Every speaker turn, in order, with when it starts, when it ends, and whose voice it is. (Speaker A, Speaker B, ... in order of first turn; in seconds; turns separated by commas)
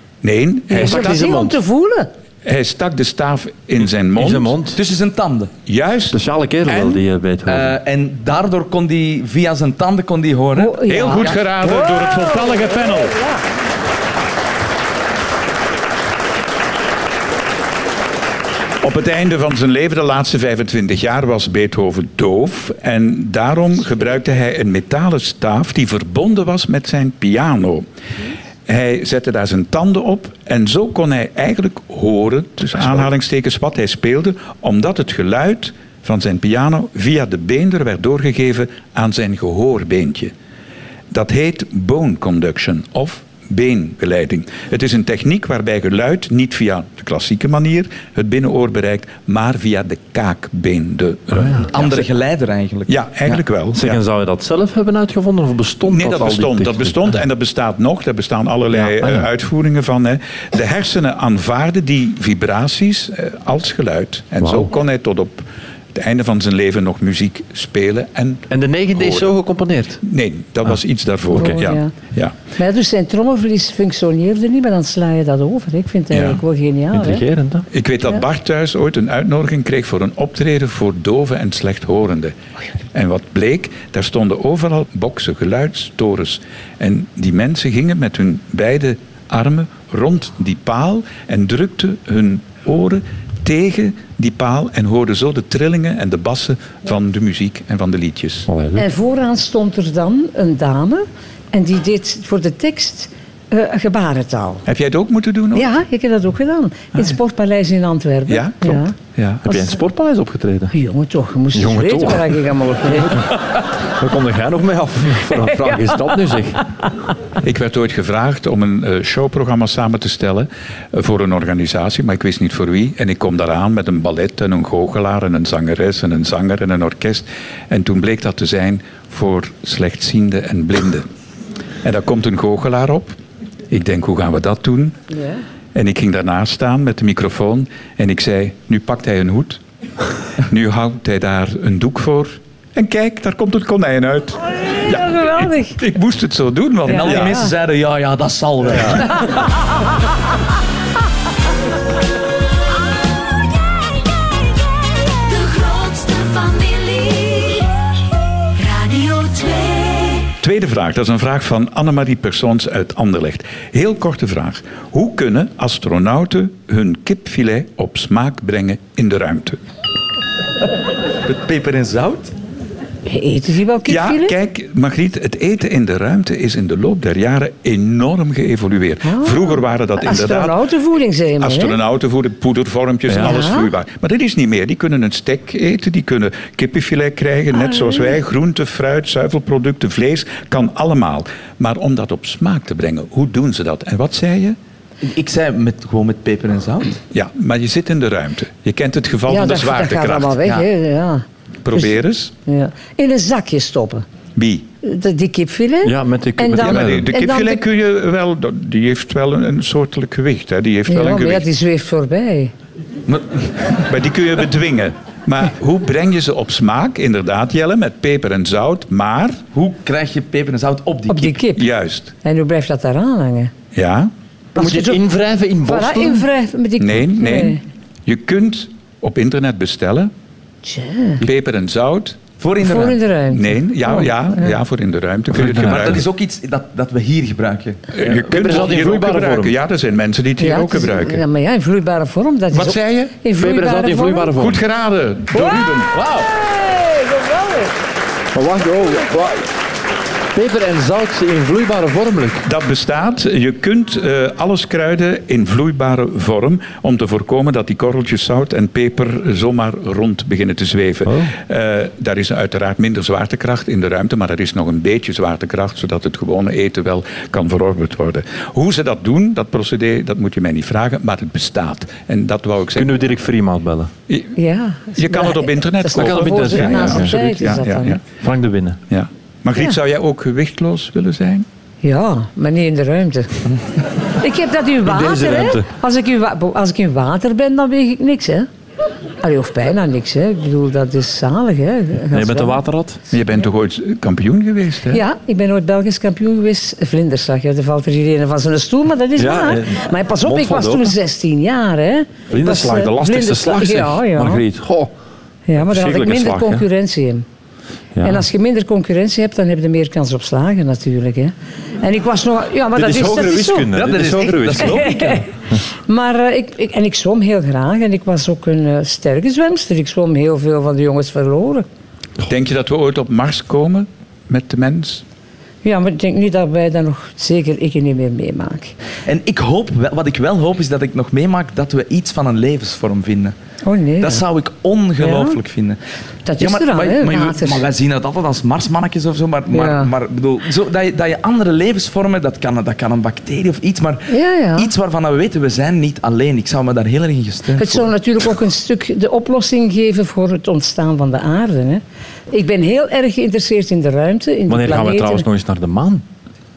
Speaker A: 0.2-1.5, Speaker B: 0.7-2.1, Speaker C: 0.8-1.6, Speaker A: 2.4-4.5, Speaker C: 4.2-4.8, Speaker D: 4.7-5.5, Speaker A: 5.7-7.0, Speaker C: 6.1-7.8, Speaker D: 7.5-11.4, Speaker B: 10.6-12.7, Speaker A: 10.9-13.2, Speaker A: 18.8-27.8, Speaker A: 28.7-40.3, Speaker A: 41.1-52.1, Speaker C: 51.4-51.6, Speaker D: 51.7-53.0, Speaker A: 52.9-54.0, Speaker C: 53.7-57.0, Speaker A: 55.8-69.3, Speaker C: 58.7-59.3, Speaker C: 64.4-64.7, Speaker C: 68.5-70.0, Speaker A: 70.0-72.3, Speaker B: 71.3-71.9, Speaker B: 72.5-77.2, Speaker A: 76.1-76.4, Speaker C: 76.9-77.7, Speaker A: 77.7-82.3, Speaker A: 82.9-98.5, Speaker C: 98.5-98.9, Speaker B: 98.8-104.6, Speaker A: 104.7-105.7, Speaker B: 105.5-108.9, Speaker A: 108.3-109.7, Speaker C: 109.4-110.7, Speaker B: 110.7-113.2, Speaker C: 111.5-116.7, Speaker A: 117.4-131.0, Speaker A: 131.8-133.2, Speaker A: 133.7-135.0, Speaker A: 135.7-139.6, Speaker A: 140.4-147.4, Speaker B: 144.6-145.8, Speaker D: 146.9-149.2, Speaker B: 146.9-147.5, Speaker A: 148.7-149.1, Speaker E: 155.2-157.8, Speaker E: 158.5-160.3, Speaker A: 160.4-169.6, Speaker D: 171.2-172.3, Speaker B: 173.1-174.3, Speaker A: 173.8-180.6, Speaker B: 179.1-181.8, Speaker A: 181.4-194.6, Speaker C: 183.1-183.3, Speaker B: 183.2-183.7, Speaker D: 195.0-197.0, Speaker A: 197.1-200.4, Speaker B: 199.3-201.9, Speaker A: 201.6-202.3, Speaker B: 202.5-204.1, Speaker A: 204.3-204.7, Speaker B: 204.8-207.6, Speaker C: 205.8-207.1, Speaker A: 206.6-211.4, Speaker B: 210.9-212.5, Speaker A: 213.8-219.4, Speaker D: 219.5-221.3, Speaker B: 221.1-221.6, Speaker A: 221.3-222.1, Speaker B: 222.2-223.5, Speaker A: 223.7-224.1, Speaker B: 224.6-225.0, Speaker C: 224.6-226.2, Speaker B: 225.7-227.6, Speaker A: 226.8-230.1, Speaker B: 230.6-231.2, Speaker A: 231.2-232.2, Speaker D: 232.4-233.0, Speaker B: 232.6-234.6, Speaker A: 233.3-236.0, Speaker C: 235.3-236.0, Speaker D: 235.5-237.9, Speaker A: 237.9-241.2, Speaker C: 238.0-239.5, Speaker B: 240.4-244.3, Speaker A: 242.5-243.1, Speaker C: 243.4-244.6, Speaker A: 244.3-245.9, Speaker B: 245.3-247.6, Speaker D: 245.9-246.3, Speaker C: 248.3-249.5, Speaker C: 250.3-252.4, Speaker A: 252.4-273.0, Speaker C: 261.1-261.3, Speaker C: 272.8-273.9, Speaker A: 274.1-274.3, Speaker B: 274.4-278.0, Speaker A: 274.9-278.0, Speaker C: 275.9-277.2, Speaker C: 278.2-278.8, Speaker A: 278.9-281.4, Speaker B: 281.8-283.4, Speaker B: 284.2-288.5, Speaker C: 284.8-285.6, Speaker B: 289.2-292.6, Speaker C: 292.1-293.0, Speaker A: 293.1-295.0, Speaker B: 294.9-304.4, Speaker C: 299.1-300.9, Speaker C: 302.3-304.9, Speaker B: 305.5-307.2, Speaker C: 305.6-306.6, Speaker C: 307.9-308.2, Speaker B: 308.0-313.7, Speaker C: 312.7-315.2, Speaker D: 313.7-315.2, Speaker B: 314.5-315.2, Speaker B: 315.9-321.6, Speaker A: 322.2-325.0, Speaker B: 325.6-328.7, Speaker D: 329.0-333.3, Speaker B: 333.6-334.2, Speaker D: 334.0-335.8, Speaker B: 335.0-335.4, Speaker B: 336.2-337.6, Speaker D: 336.4-347.9, Speaker B: 339.5-339.9, Speaker B: 344.1-344.7, Speaker B: 347.6-355.2, Speaker C: 354.5-356.0